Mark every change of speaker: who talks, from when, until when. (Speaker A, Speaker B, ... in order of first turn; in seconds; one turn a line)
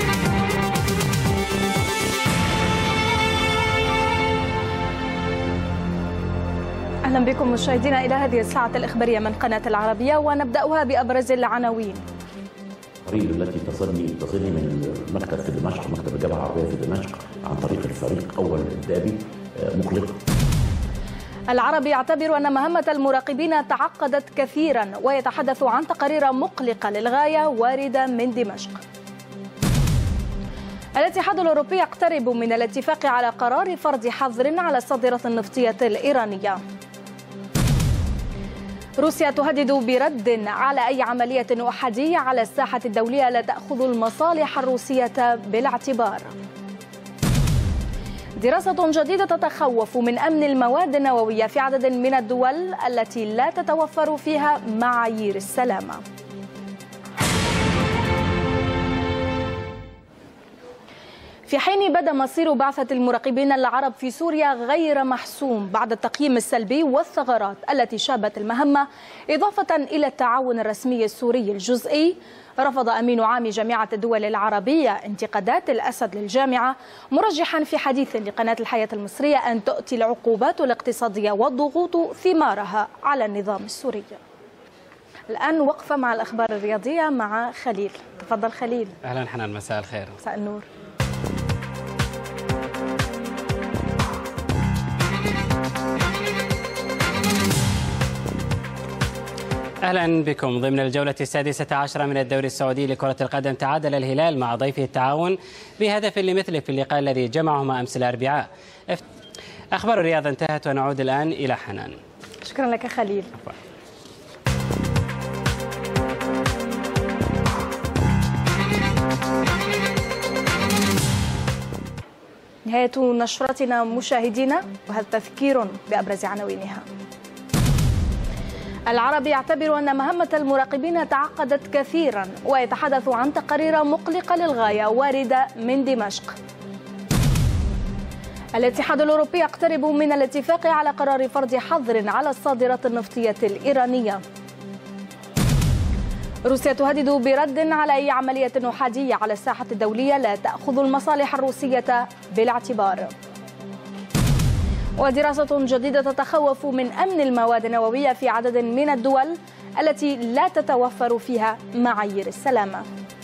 Speaker A: 7.0-12.0
Speaker B: 13.1-20.2
Speaker A: 21.5-28.8
Speaker A: 31.0-36.6
Speaker A: 39.0-46.4
Speaker A: 48.4-56.0
Speaker A: 61.5-84.2
Speaker A: 85.3-89.0
Speaker C: 89.0-90.2
Speaker A: 90.2-90.7
Speaker C: 99.8-109.0
Speaker C: 109.7-112.0
Speaker A: 112.4-113.3
Speaker A: 122.7-126.8
Speaker A: 128.9-136.4
Speaker A: 138.6-144.2
Speaker A: 146.4-153.1
Speaker A: 155.0-162.9